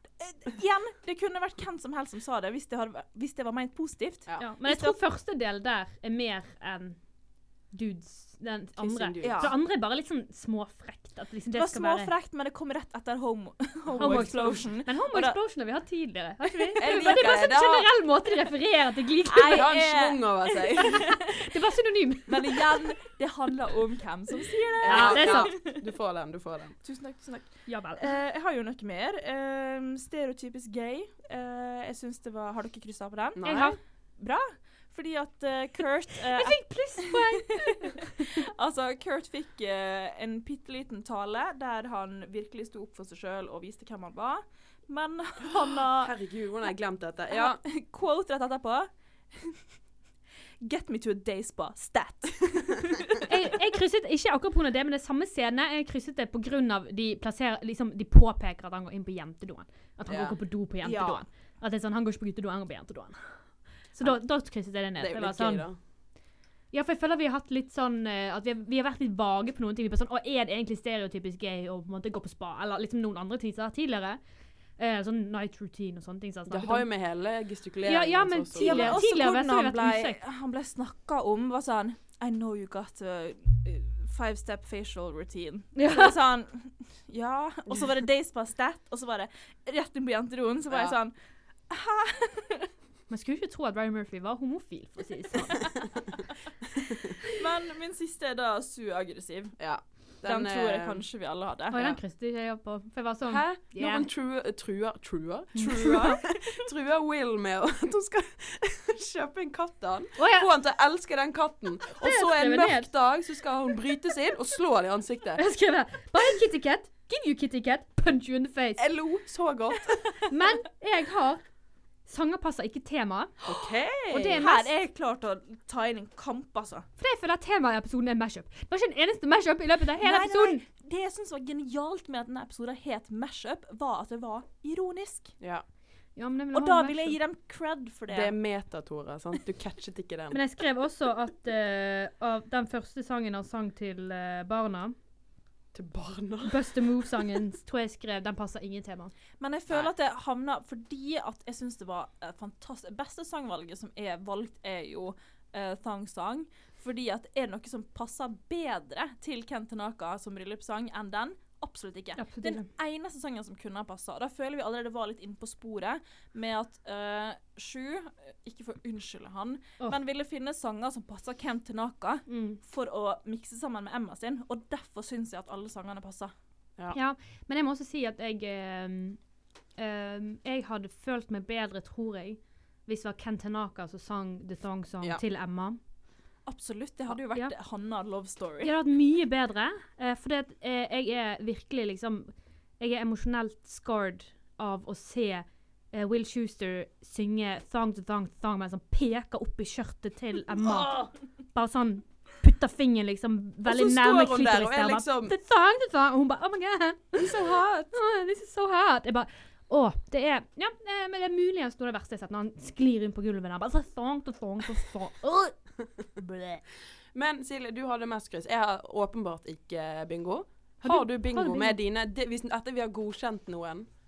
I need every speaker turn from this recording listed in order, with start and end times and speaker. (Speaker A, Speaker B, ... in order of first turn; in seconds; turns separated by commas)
Speaker A: 0.2-5.0, Speaker B: 4.4-7.0, Speaker B: 7.7-12.1, Speaker C: 8.8-9.5, Speaker A: 9.2-9.5, Speaker A: 11.5-15.4, Speaker C: 13.9-14.3, Speaker B: 14.0-19.7, Speaker C: 16.8-17.9, Speaker A: 19.3-20.9, Speaker C: 19.4-21.2, Speaker B: 21.2-22.7, Speaker A: 22.3-25.8, Speaker C: 24.8-26.7, Speaker B: 24.8-25.5, Speaker A: 26.8-46.1, Speaker B: 27.7-28.0, Speaker C: 33.4-33.8, Speaker B: 33.4-33.8, Speaker B: 36.4-38.1, Speaker C: 46.0-47.6, Speaker A: 47.3-49.6, Speaker A: 50.6-53.3, Speaker B: 53.3-65.7, Speaker C: 60.1-60.4, Speaker A: 60.8-61.2, Speaker C: 64.0-64.3, Speaker C: 64.9-65.8, Speaker B: 66.7-74.2, Speaker B: 74.8-76.9, Speaker C: 76.5-79.0, Speaker B: 77.8-80.2, Speaker A: 78.6-91.1, Speaker B: 85.8-86.1, Speaker C: 90.7-91.0, Speaker A: 91.7-92.7, Speaker B: 93.1-95.8, Speaker A: 97.3-99.6, Speaker C: 99.6-101.0, Speaker A: 100.2-101.8, Speaker B: 101.7-104.0, Speaker C: 101.7-102.0, Speaker C: 103.3-115.4, Speaker B: 105.5-106.2, Speaker A: 105.7-106.4, Speaker B: 110.2-110.5, Speaker B: 112.0-112.9, Speaker B: 115.4-118.8, Speaker C: 118.8-120.0, Speaker B: 120.3-121.4, Speaker B: 122.0-123.4, Speaker C: 123.4-124.4, Speaker B: 124.1-124.7, Speaker A: 124.3-126.9, Speaker B: 127.0-130.6, Speaker A: 130.0-135.4, Speaker B: 136.2-137.2, Speaker A: 136.5-138.3, Speaker C: 138.1-140.4, Speaker B: 140.3-144.9, Speaker C: 145.7-147.1, Speaker B: 146.4-149.1, Speaker A: 149.4-176.3, Speaker B: 162.2-162.7, Speaker B: 172.3-172.6, Speaker B: 176.9-179.2, Speaker B: 179.8-185.8, Speaker A: 186.4-188.7, Speaker B: 187.1-187.5, Speaker B: 188.6-215.6, Speaker C: 200.6-201.1, Speaker C: 203.6-205.3, Speaker C: 207.2-207.9, Speaker B: 216.2-216.6, Speaker C: 217.1-223.9, Speaker B: 220.8-221.8